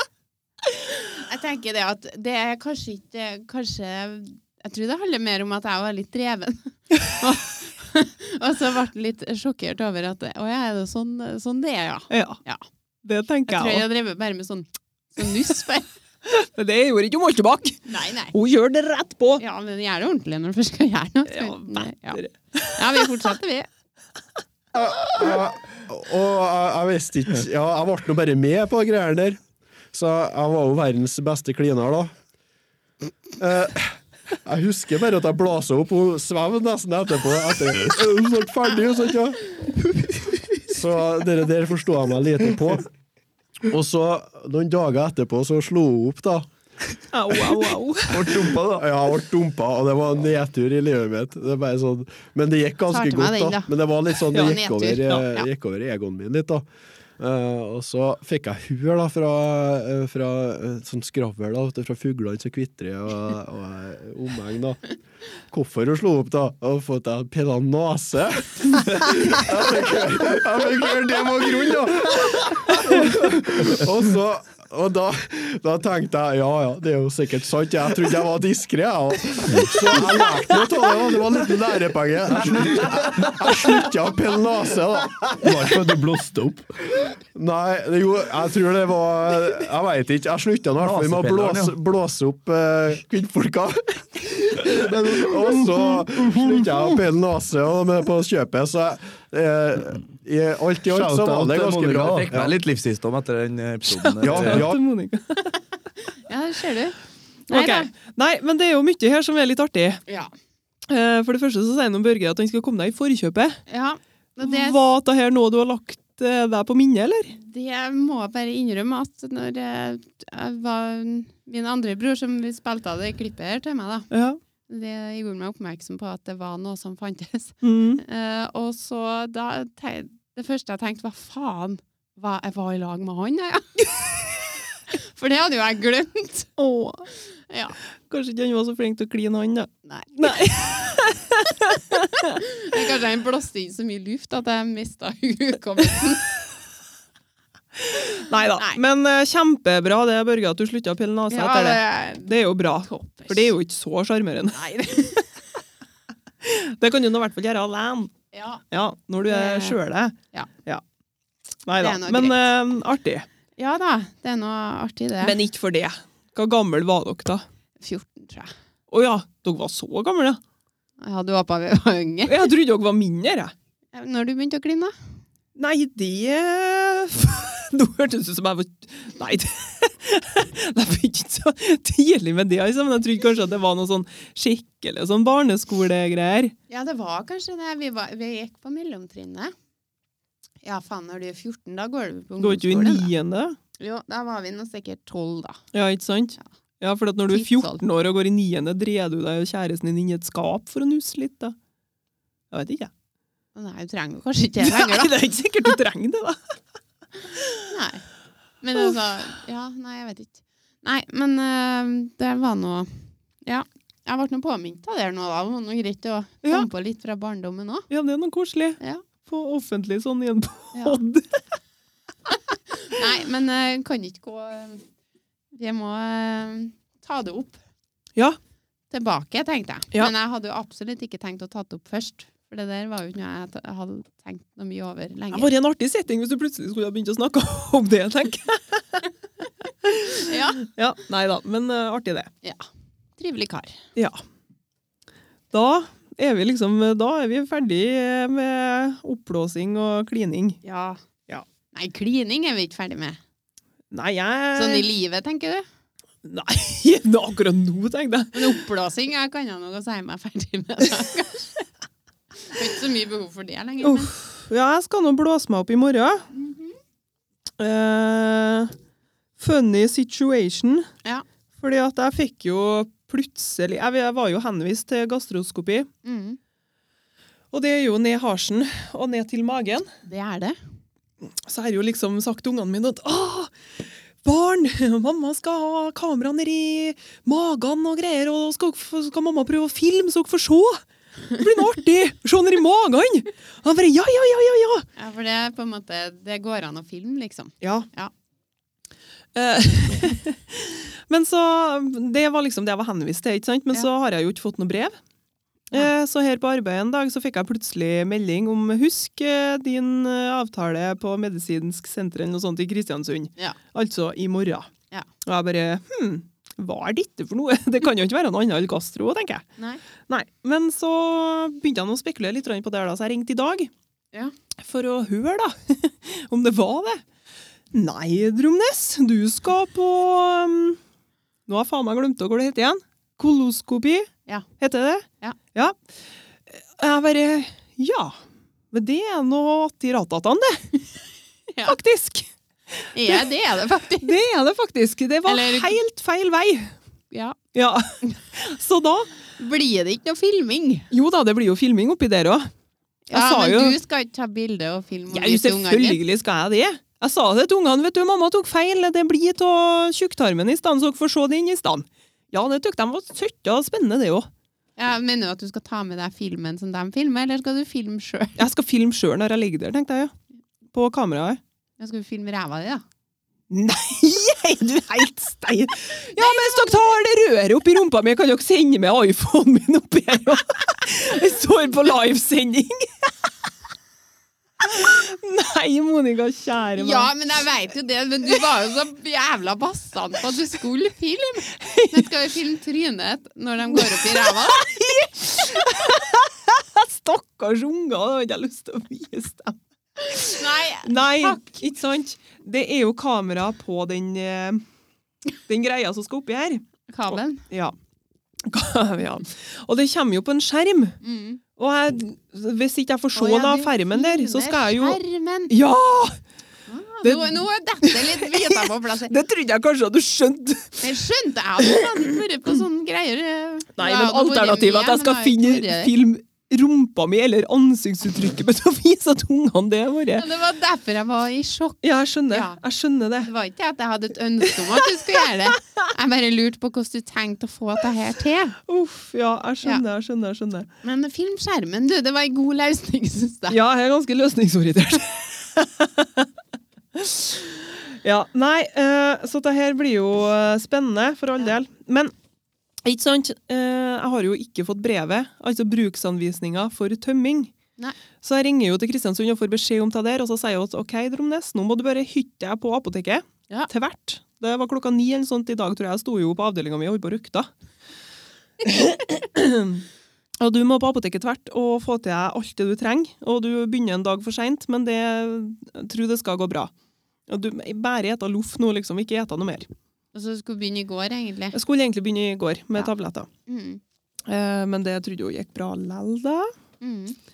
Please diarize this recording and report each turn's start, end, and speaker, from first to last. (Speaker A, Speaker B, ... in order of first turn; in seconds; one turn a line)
Speaker A: 1.1-12.6
Speaker B: 12.1-12.4
Speaker B: 13.1-13.8
Speaker A: 13.5-15.9
Speaker B: 16.3-19.4
Speaker A: 17.9-18.3
Speaker A: 19.4-23.7
Speaker B: 21.3-23.3
Speaker C: 24.7-29.4
Speaker C: 29.9-32.1
Speaker C: 33.4-39.8
Speaker C: 40.7-42.9
Speaker C: 43.6-46.5
Speaker B: 47.1-48.4
Speaker D: 48.1-48.9
Speaker C: 48.7-56.6
Speaker A: 52.9-53.7
Speaker B: 54.3-55.3
Speaker A: 54.3-55.5
Speaker C: 57.2-64.9
Speaker C: 65.5-85.9
Speaker D: 82.7-83.5
Speaker D: 85.3-87.1
Speaker C: 87.3-102.6
Speaker D: 90.8-91.8
Speaker D: 94.8-96.7
Speaker D: 100.9-104.7
Speaker C: 104.2-104.8
Speaker B: 104.3-105.5
Speaker A: 106.3-107.0
Speaker A: 107.5-107.9
Speaker B: 107.5-110.0
Speaker A: 110.1-110.3
Speaker B: 110.9-113.6
Speaker A: 113.7-114.8
Speaker B: 114.4-117.3
Speaker A: 117.3-124.1
Speaker B: 124.1-124.4
Speaker A: 124.7-134.2
Speaker B: 127.6-128.0
Speaker A: 134.9-136.5
Speaker B: 136.6-137.1
Speaker A: 137.5-137.8
Speaker B: 138.1-142.4
Speaker A: 139.9-140.3
Speaker A: 142.4-146.2
Speaker B: 147.8-154.6
Speaker A: 151.3-152.3
Speaker A: 152.8-153.5
Speaker A: 154.5-155.2
Speaker B: 156.4-158.2
Speaker A: 158.3-158.6
Speaker B: 158.7-160.8
Speaker A: 159.2-159.8
Speaker B: 161.7-163.3
Speaker A: 161.8-162.5
Speaker A: 163.6-165.3
Speaker B: 165.2-167.4
Speaker A: 167.8-168.5
Speaker B: 168.9-170.4
Speaker A: 171.0-172.5
Speaker B: 172.3-173.5
Speaker A: 173.9-174.9
Speaker B: 175.6-186.5
Speaker A: 186.7-189.5
Speaker A: 190.6-193.1
Speaker B: 192.4-193.6
Speaker A: 193.8-195.6
Speaker B: 195.7-201.6
Speaker A: 197.3-197.8
Speaker B: 202.5-202.9
Speaker A: 203.6-205.2
Speaker B: 204.6-206.6
Speaker B: 207.3-207.6
Speaker A: 207.7-208.0
Speaker A: 208.6-217.9
Speaker B: 208.8-209.0
Speaker B: 217.9-221.4
Speaker A: 220.8-221.0
Speaker A: 222.9-224.8
Speaker A: 225.5-227.6
Speaker A: 228.9-235.5
Speaker B: 235.3-239.1
Speaker B: 239.8-242.3
Speaker A: 240.2-240.6
Speaker A: 243.2-243.8
Speaker B: 244.0-244.2
Speaker B: 245.5-250.6
Speaker A: 250.6-251.0
Speaker A: 251.7-253.2
Speaker B: 253.9-254.9
Speaker A: 254.6-255.7
Speaker B: 256.2-258.6
Speaker A: 258.3-261.7
Speaker A: 262.5-264.1
Speaker B: 263.8-266.3
Speaker A: 266.3-266.8
Speaker B: 267.6-268.7
Speaker B: 269.4-270.9
Speaker B: 271.6-275.9
Speaker A: 276.1-276.4
Speaker B: 277.5-279.9
Speaker A: 280.1-280.6
Speaker B: 281.2-283.5
Speaker B: 284.2-290.8
Speaker B: 291.3-294.9
Speaker A: 295.0-298.1
Speaker B: 297.6-297.9
Speaker B: 299.4-305.0
Speaker B: 305.7-314.7
Speaker B: 315.2-319.4
Speaker B: 320.1-323.7
Speaker B: 324.6-327.0
Speaker B: 327.7-330.8
Speaker B: 331.5-335.8
Speaker B: 336.5-338.2
Speaker B: 338.7-340.8
Speaker B: 341.6-343.3
Speaker A: 342.9-344.2
Speaker B: 344.0-346.7
Speaker A: 345.3-345.8
Speaker A: 347.1-347.4
Speaker B: 347.5-349.1
Speaker A: 349.4-350.9
Speaker B: 350.9-352.5
Speaker A: 353.1-356.0
Speaker B: 353.1-353.8
Speaker B: 355.1-364.3
Speaker A: 364.8-368.4
Speaker B: 368.4-370.1
Speaker B: 370.7-371.4
Speaker A: 371.8-372.8
Speaker B: 373.5-383.1
Speaker A: 376.1-376.8
Speaker B: 384.6-387.1
Speaker A: 386.8-394.7
Speaker B: 391.6-392.1
Speaker B: 393.7-404.6
Speaker A: 400.0-401.6
Speaker B: 405.5-407.8
Speaker A: 406.9-407.4
Speaker B: 408.5-411.0
Speaker A: 411.0-411.4
Speaker B: 411.6-415.0
Speaker A: 413.1-415.5
Speaker B: 415.5-416.2
Speaker A: 416.7-419.1
Speaker B: 417.0-420.8
Speaker A: 420.8-425.9
Speaker B: 423.8-430.2
Speaker A: 430.2-432.6
Speaker B: 431.8-433.3
Speaker A: 433.2-438.6
Speaker B: 438.7-440.7
Speaker A: 440.8-443.6
Speaker B: 443.5-446.3
Speaker B: 446.9-452.1
Speaker B: 452.9-457.5
Speaker B: 458.2-467.5
Speaker B: 468.6-469.8
Speaker B: 470.4-476.7
Speaker B: 477.3-479.7
Speaker A: 480.1-481.6
Speaker B: 481.5-483.3
Speaker A: 483.5-483.8
Speaker B: 484.3-486.5
Speaker A: 486.8-487.2